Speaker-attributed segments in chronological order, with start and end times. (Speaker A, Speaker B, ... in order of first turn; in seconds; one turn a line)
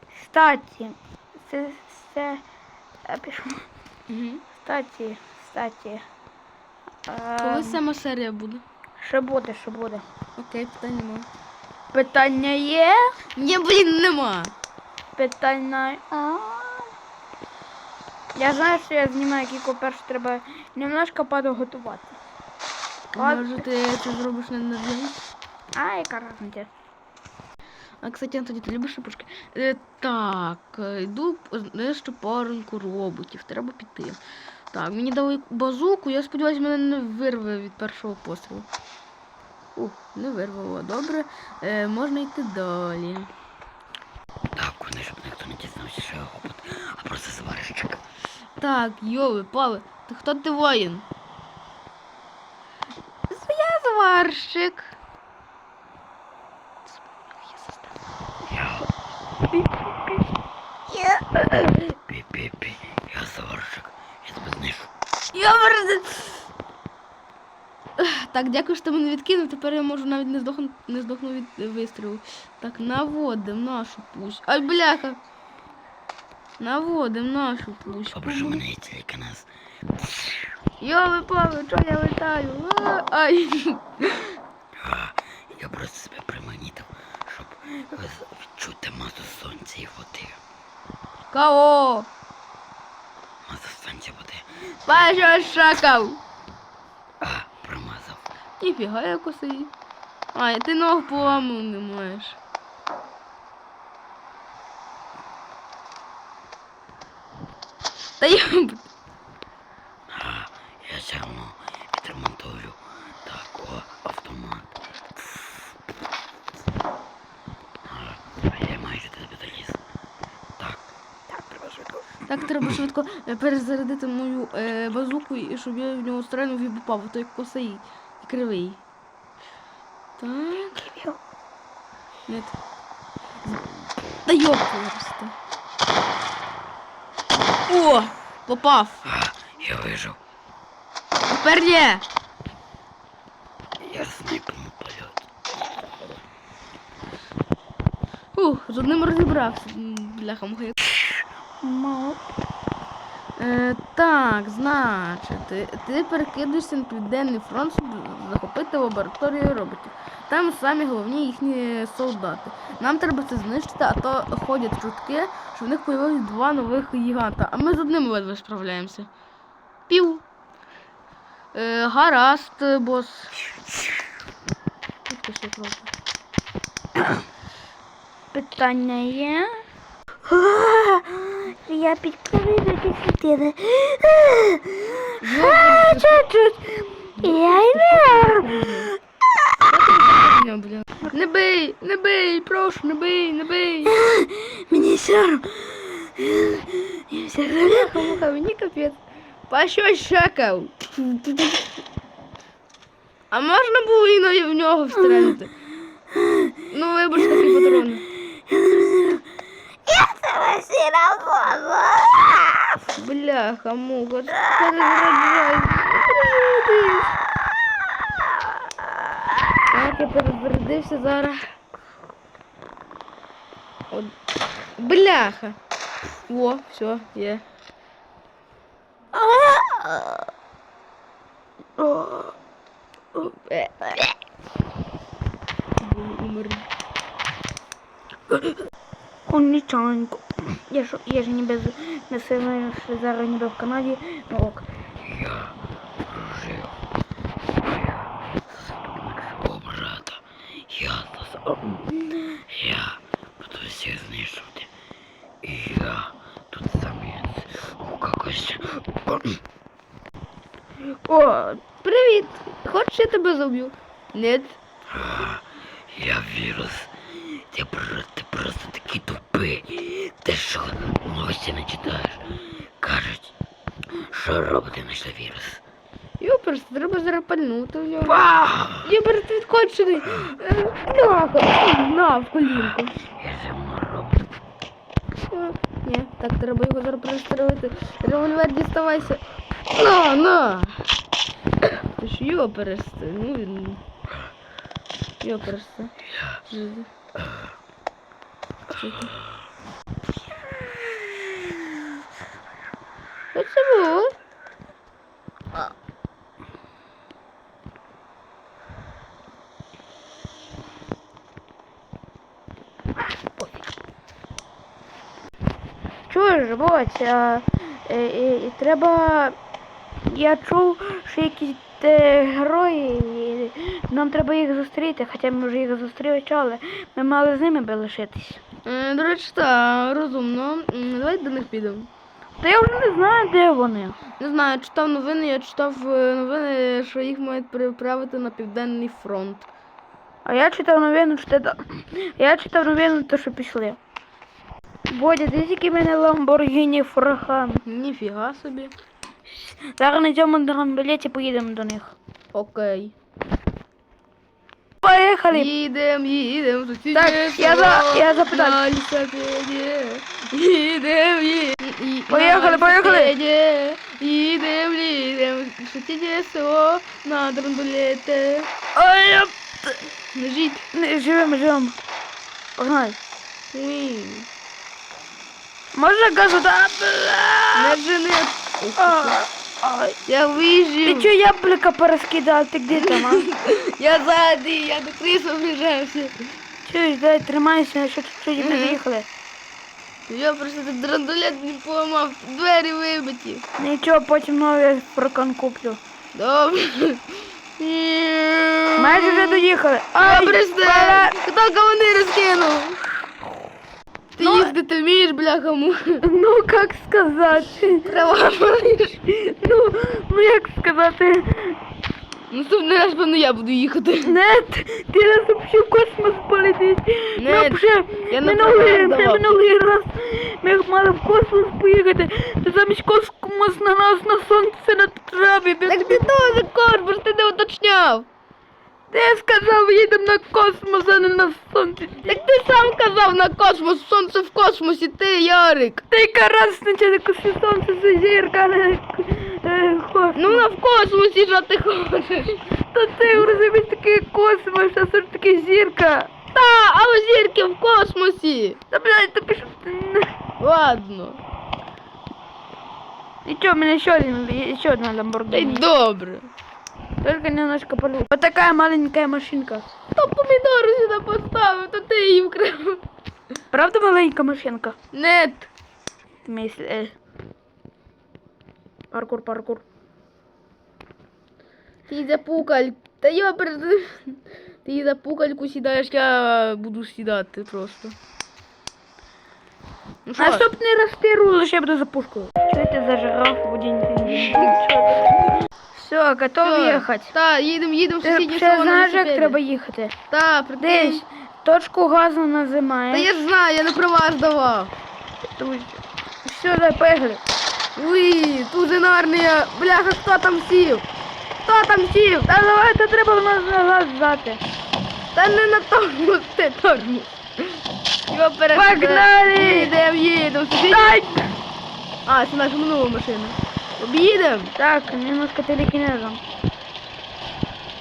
Speaker A: 0.1-2.4
Speaker A: 3.1-3.6
Speaker B: 4.1-4.4
Speaker A: 4.6-6.0
Speaker A: 7.1-7.8
Speaker B: 7.4-8.6
Speaker A: 9.0-10.0
Speaker B: 10.4-11.3
Speaker A: 11.9-13.0
Speaker B: 13.3-14.5
Speaker A: 15.2-16.9
Speaker A: 18.3-22.2
Speaker B: 23.1-25.2
Speaker A: 23.1-23.6
Speaker A: 25.7-26.7
Speaker B: 28.0-34.2
Speaker B: 34.7-38.6
Speaker B: 39.8-43.3
Speaker C: 44.5-48.0
Speaker B: 48.6-51.0
Speaker B: 53.3-54.9
Speaker B: 56.9-57.9
Speaker C: 58.5-58.9
Speaker A: 59.5-60.2
Speaker B: 61.0-61.2
Speaker C: 62.0-64.9
Speaker B: 65.3-66.5
Speaker B: 68.0-75.2
Speaker B: 76.6-78.6
Speaker C: 78.1-79.5
Speaker C: 80.0-80.3
Speaker B: 80.8-84.3
Speaker C: 84.8-90.4
Speaker B: 91.3-92.1
Speaker C: 93.5-94.4
Speaker B: 94.8-96.2
Speaker C: 97.2-98.2
Speaker B: 98.6-99.7
Speaker B: 100.3-102.4
Speaker B: 108.2-108.9
Speaker C: 110.1-114.7
Speaker C: 117.8-119.8
Speaker C: 120.6-120.8
Speaker A: 121.3-122.2
Speaker B: 122.3-128.8
Speaker B: 130.2-130.8
Speaker A: 130.8-131.2
Speaker B: 132.3-132.6
Speaker B: 134.2-135.3
Speaker B: 137.7-139.0
Speaker C: 139.0-140.2
Speaker B: 141.3-142.0
Speaker C: 143.8-145.2
Speaker B: 148.3-150.8
Speaker A: 151.6-152.2
Speaker B: 153.4-169.1
Speaker B: 169.9-170.2
Speaker B: 171.5-173.3
Speaker B: 175.1-175.9
Speaker A: 178.3-179.5
Speaker A: 180.3-188.8
Speaker B: 185.2-186.2
Speaker B: 187.2-188.9
Speaker B: 189.6-193.9
Speaker A: 193.8-198.2
Speaker B: 197.7-201.6
Speaker B: 203.3-205.5
Speaker B: 206.7-208.0
Speaker A: 207.5-207.8
Speaker A: 208.5-209.2
Speaker A: 209.9-212.1
Speaker B: 212.9-217.1
Speaker B: 219.7-221.5
Speaker B: 224.8-225.6
Speaker B: 226.3-227.4
Speaker A: 229.2-230.0
Speaker A: 231.8-232.3
Speaker B: 233.2-234.1
Speaker B: 235.8-236.7
Speaker A: 239.3-244.7
Speaker C: 245.0-245.5
Speaker C: 246.1-246.8
Speaker C: 247.6-254.7
Speaker C: 255.4-259.4
Speaker A: 261.0-261.6
Speaker B: 261.8-264.6
Speaker C: 264.9-273.3
Speaker C: 274.0-275.6
Speaker B: 276.2-283.0
Speaker C: 278.0-278.9
Speaker C: 283.1-284.3
Speaker B: 285.3-290.8
Speaker B: 291.9-293.8
Speaker B: 295.2-295.9
Speaker B: 296.5-296.9
Speaker C: 297.2-297.4
Speaker B: 298.7-299.1
Speaker B: 303.3-304.1
Speaker A: 316.1-319.4
Speaker A: 320.1-328.4
Speaker B: 328.6-331.9
Speaker A: 332.4-334.0
Speaker B: 334.2-339.4
Speaker A: 340.2-343.8
Speaker A: 344.9-347.6
Speaker B: 347.6-348.7
Speaker A: 349.3-351.9
Speaker B: 352.3-352.9
Speaker A: 354.8-355.5
Speaker B: 355.3-368.5
Speaker A: 356.9-358.6
Speaker A: 362.1-363.1
Speaker A: 368.7-369.7
Speaker B: 370.1-370.6
Speaker A: 370.7-371.8
Speaker A: 372.6-373.0
Speaker B: 373.5-374.3
Speaker A: 375.7-377.8
Speaker B: 377.5-379.2
Speaker A: 378.8-380.0
Speaker B: 380.1-381.1
Speaker A: 380.8-383.2
Speaker B: 382.7-386.2
Speaker A: 386.6-389.1
Speaker B: 388.4-388.8
Speaker B: 390.1-393.4
Speaker A: 393.6-395.8
Speaker B: 396.1-399.4
Speaker A: 398.8-401.1
Speaker B: 400.0-402.8
Speaker B: 404.2-406.0
Speaker A: 404.2-404.5
Speaker A: 406.0-407.9
Speaker B: 407.8-409.0
Speaker A: 409.1-411.6
Speaker B: 412.3-414.2
Speaker A: 414.0-426.3
Speaker B: 417.2-419.4
Speaker B: 425.6-428.1
Speaker A: 428.9-432.2
Speaker B: 432.1-435.8
Speaker A: 435.9-440.4
Speaker B: 440.1-442.4
Speaker A: 442.7-446.1
Speaker B: 446.3-448.6
Speaker A: 448.7-450.1
Speaker B: 450.4-451.2
Speaker A: 453.2-455.6
Speaker B: 455.3-456.3
Speaker A: 457.0-459.6
Speaker B: 459.9-462.8
Speaker A: 463.5-464.8
Speaker B: 464.9-465.5
Speaker A: 466.2-466.9
Speaker A: 468.9-469.6
Speaker B: 471.9-477.9
Speaker B: 480.1-480.4
Speaker A: 480.2-487.1
Speaker B: 484.1-484.5
Speaker B: 486.4-489.4
Speaker A: 488.0-489.9
Speaker B: 490.1-491.0
Speaker A: 490.6-493.1
Speaker B: 492.9-494.7
Speaker A: 495.2-497.2
Speaker B: 497.8-500.9
Speaker B: 501.4-502.3
Speaker A: 502.2-504.4
Speaker B: 505.1-507.6
Speaker B: 508.1-511.0
Speaker A: 508.5-509.7
Speaker A: 510.7-511.3
Speaker B: 512.0-514.5
Speaker A: 514.5-516.2